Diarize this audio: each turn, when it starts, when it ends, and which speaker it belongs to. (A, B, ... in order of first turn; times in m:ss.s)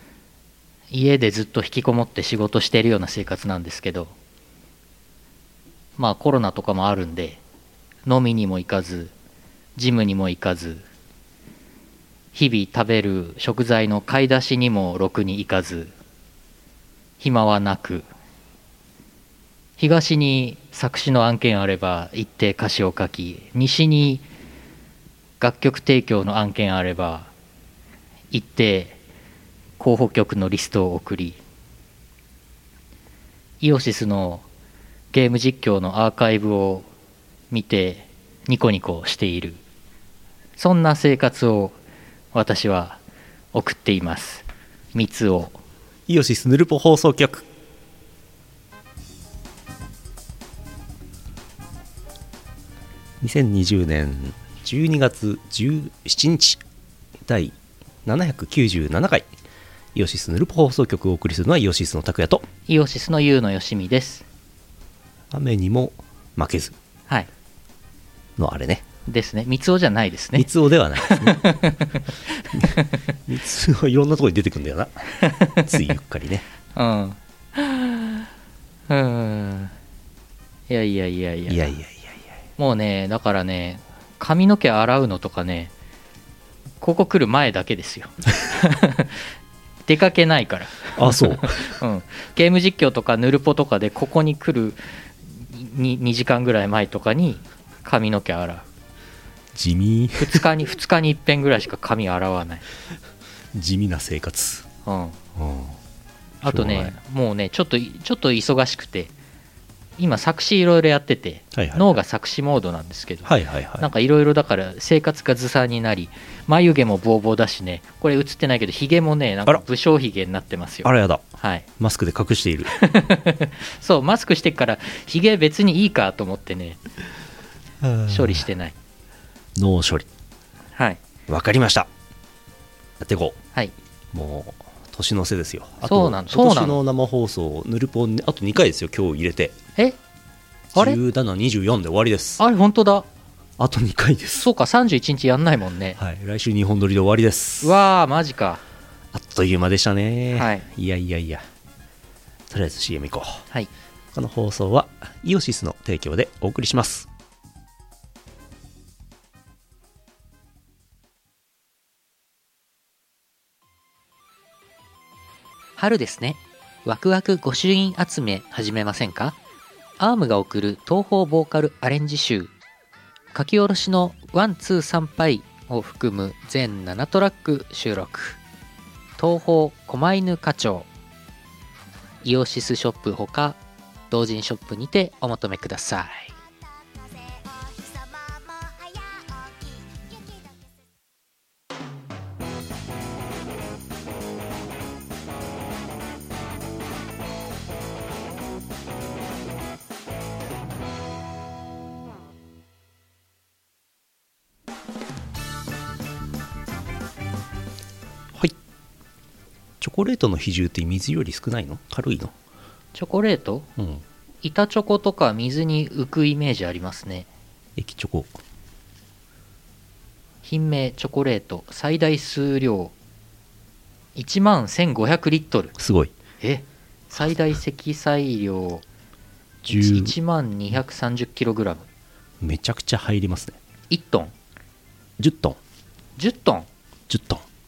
0:00.9-0:04.1 A
0:06.0-0:07.4 A
0:08.1-0:09.1 A
0:09.8-0:10.9 A
0:12.3-0:15.9 A
0:17.2-0:18.1 A
0:19.8-0:24.3 A
0:25.4-0:27.3 A
0:28.3-0:29.0 A
0:29.8-0:31.4 A
0:33.6-0:34.4 A
0:35.1-0:36.9 A
0:37.5-0:39.6 A
0:40.6-0:41.8 A
0:42.3-0:43.0 A
0:43.5-0:45.6 A
0:46.1-0:47.5 B
0:53.2-0:56.6 B
0:57.3-0:59.3 B
0:59.9-1:02.5 B
1:02.7-1:04.3 A
1:05.3-1:06.8 B
1:08.4-1:08.9 B
1:09.1-1:13.0 A
1:10.4-1:11.6 B
1:12.5-1:16.4 B
1:15.2-1:15.7 A
1:16.8-1:18.2 A
1:18.9-1:19.7 A
1:20.7-1:21.8 A
1:21.5-1:22.3 B
1:22.6-1:25.7 A
1:26.8-1:29.3 A
1:29.9-1:38.7 A
1:31.0-1:31.7 B
1:39.5-1:40.5 B
1:40.2-1:42.6 A
1:43.5-1:44.7 B
1:44.8-1:45.2 A
1:45.4-1:45.8 B
1:46.4-1:47.0 B
1:46.4-1:49.1 A
1:50.0-2:01.7 A
1:51.5-1:52.0 B
1:53.2-1:53.9 B
2:00.8-2:02.7 B
2:02.7-2:06.8 A
2:07.8-2:08.4 B
2:08.1-2:08.8 A
2:09.6-2:10.1 B
2:10.8-2:11.0 A
2:11.3-2:11.9 B
2:13.0-2:13.4 B
2:14.1-2:19.6 B
2:15.8-2:16.8 A
2:20.7-2:22.4 B
2:22.4-2:23.1 A
2:23.6-2:24.5 B
2:24.4-2:26.0 A
2:26.0-2:27.8 B
2:27.6-2:28.6 A
2:29.1-2:31.4 B
2:30.3-2:30.7 A
2:32.5-2:33.5 B
2:34.1-2:37.1 B
2:45.8-2:49.4 A
2:50.0-2:52.5 A
2:53.3-2:58.4 A
2:59.2-3:00.9 A
3:02.2-3:03.6 A
3:04.1-3:06.3 A
3:29.8-3:32.3 B
3:33.0-3:33.7 A
3:33.8-3:34.0 B
3:34.4-3:37.3 A
3:37.8-3:38.4 B
3:40.4-3:42.9 A
3:44.2-3:45.8 A
3:45.8-3:46.1 B
3:46.4-3:48.8 A
3:49.6-3:50.2 B
3:49.7-3:51.9 A
3:52.4-3:53.6 B
3:53.9-3:54.3 A
3:55.2-3:55.6 B
3:56.2-3:56.7 A
3:57.1-3:57.4 B